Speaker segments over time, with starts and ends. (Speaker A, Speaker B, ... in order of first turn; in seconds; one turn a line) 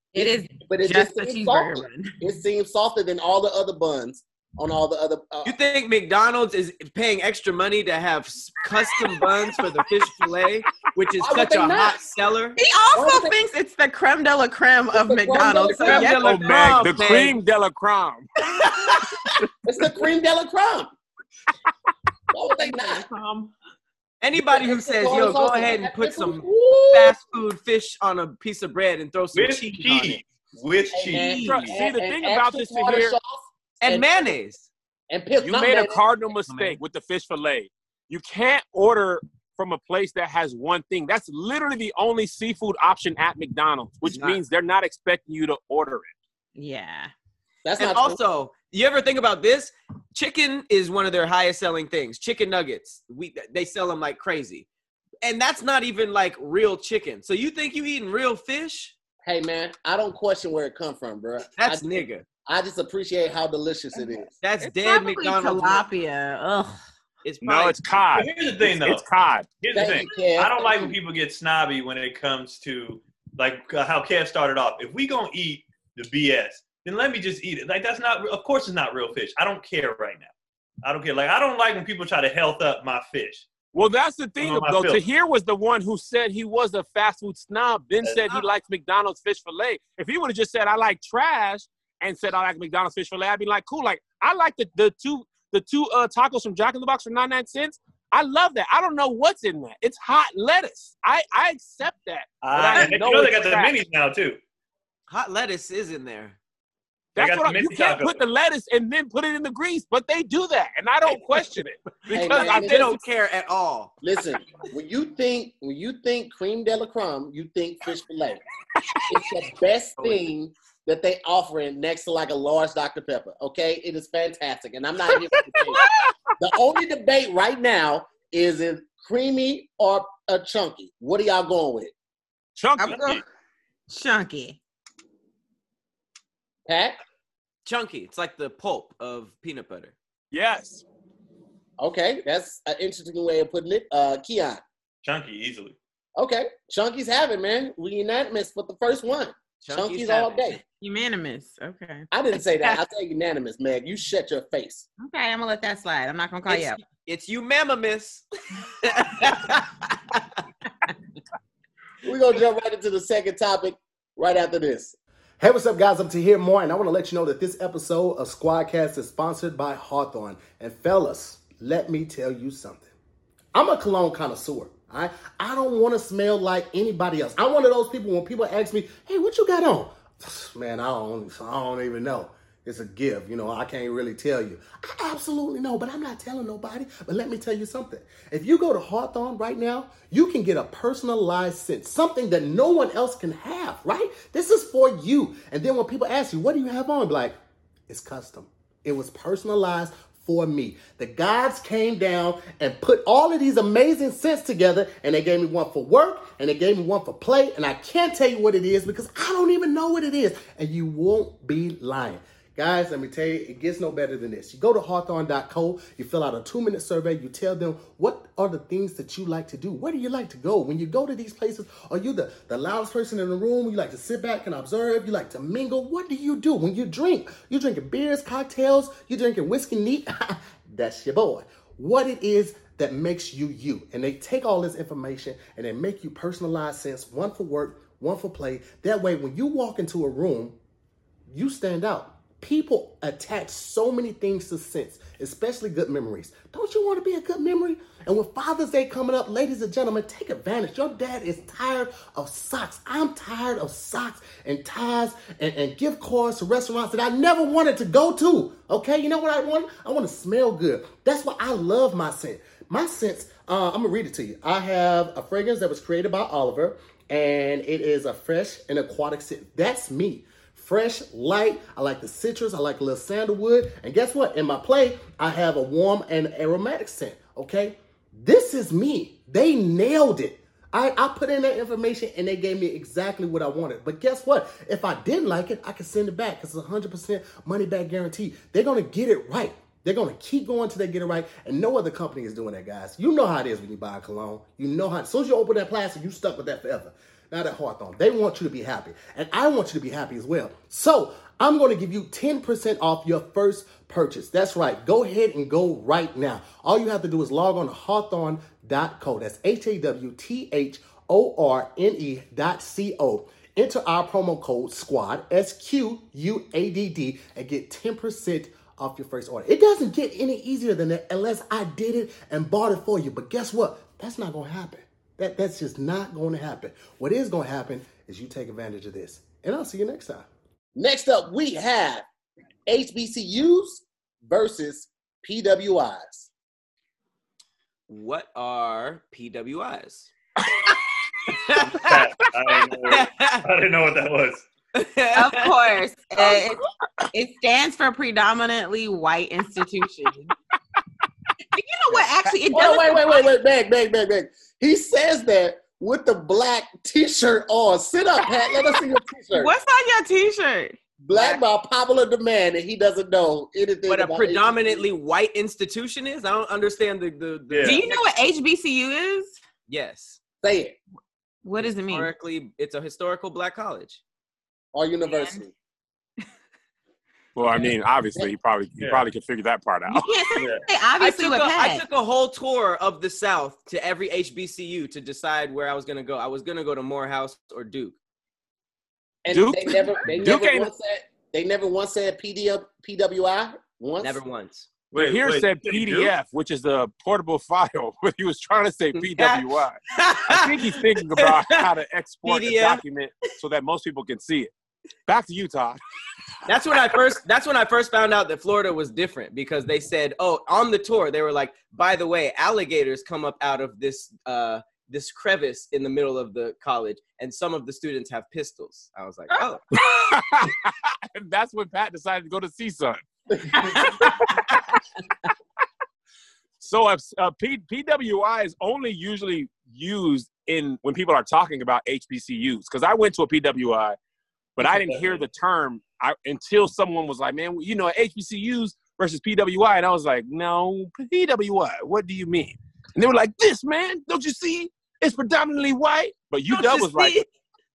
Speaker A: 0.1-2.1
Speaker B: 0.1-5.5
Speaker C: 5.4-12.6
Speaker B: 11.2-12.0
Speaker A: 12.6-16.7
Speaker B: 12.9-13.4
Speaker B: 14.9-16.1
Speaker C: 15.8-17.4
Speaker D: 16.0-18.3
Speaker C: 18.5-19.3
Speaker B: 19.6-20.9
Speaker B: 22.3-23.0
Speaker A: 22.6-23.5
Speaker C: 24.2-30.2
Speaker B: 24.4-27.2
Speaker E: 29.3-31.5
Speaker B: 30.9-34.3
Speaker C: 31.1-31.7
Speaker D: 31.3-33.1
Speaker C: 33.8-34.7
Speaker B: 35.1-36.0
Speaker D: 35.4-46.1
Speaker C: 36.5-36.8
Speaker C: 44.0-44.4
Speaker A: 46.5-47.1
Speaker B: 47.6-48.2
Speaker C: 47.8-54.7
Speaker C: 55.2-58.9
Speaker B: 59.2-64.3
Speaker C: 61.6-62.2
Speaker C: 64.4-65.8
Speaker A: 64.6-66.8
Speaker C: 67.2-67.8
Speaker D: 67.4-69.6
Speaker E: 68.1-69.0
Speaker E: 69.6-80.3
Speaker B: 69.7-71.0
Speaker E: 80.8-83.5
Speaker D: 83.7-103.8
Speaker E: 84.4-85.0
Speaker E: 102.4-104.4
Speaker C: 105.1-106.4
Speaker D: 107.1-113.0
Speaker E: 107.2-108.2
Speaker B: 112.1-112.9
Speaker C: 112.1-113.9
Speaker B: 114.0-118.4
Speaker B: 119.1-125.8
Speaker A: 125.8-126.1
Speaker B: 126.4-131.9
Speaker D: 132.6-133.2
Speaker A: 132.8-133.2
Speaker A: 133.9-134.6
Speaker B: 136.7-137.0
Speaker C: 137.7-139.9
Speaker D: 140.3-140.8
Speaker B: 141.8-144.6
Speaker E: 145.0-145.8
Speaker B: 146.2-150.6
Speaker C: 149.6-150.6
Speaker A: 150.8-152.1
Speaker B: 152.1-154.9
Speaker A: 155.0-156.8
Speaker C: 156.5-160.4
Speaker B: 162.0-164.9
Speaker F: 165.4-172.9
Speaker F: 173.5-197.3
Speaker F: 197.9-240.6
Speaker F: 241.3-330.3
Speaker B: 330.8-332.0
Speaker B: 332.7-336.3
Speaker C: 337.9-341.9
Speaker E: 341.6-344.5
Speaker C: 342.9-343.4
Speaker C: 344.7-346.3
Speaker A: 345.1-350.3
Speaker A: 351.5-353.3
Speaker B: 352.5-359.5
Speaker A: 359.3-360.8
Speaker B: 361.0-364.9
Speaker C: 361.1-361.4
Speaker C: 363.9-368.0
Speaker E: 367.5-367.8
Speaker A: 367.6-369.4
Speaker C: 369.7-370.2
Speaker B: 370.4-370.8
Speaker A: 371.4-372.1
Speaker C: 371.6-374.0
Speaker B: 374.7-375.5
Speaker A: 375.1-375.4
Speaker D: 377.3-380.2
Speaker B: 377.5-378.3
Speaker E: 378.8-379.1
Speaker A: 379.9-381.8
Speaker E: 380.4-380.6
Speaker C: 381.0-387.9
Speaker B: 389.2-394.2
Speaker D: 389.3-390.7
Speaker C: 394.0-394.7
Speaker D: 394.9-404.5
Speaker E: 394.9-396.1
Speaker C: 398.9-401.7
Speaker C: 402.2-402.8
Speaker D: 405.1-405.8
Speaker C: 406.4-419.6
Speaker A: 419.3-420.1
Speaker D: 419.7-424.6
Speaker D: 426.6-434.0
Speaker D: 434.6-447.2
Speaker E: 434.6-435.1
Speaker A: 446.5-447.3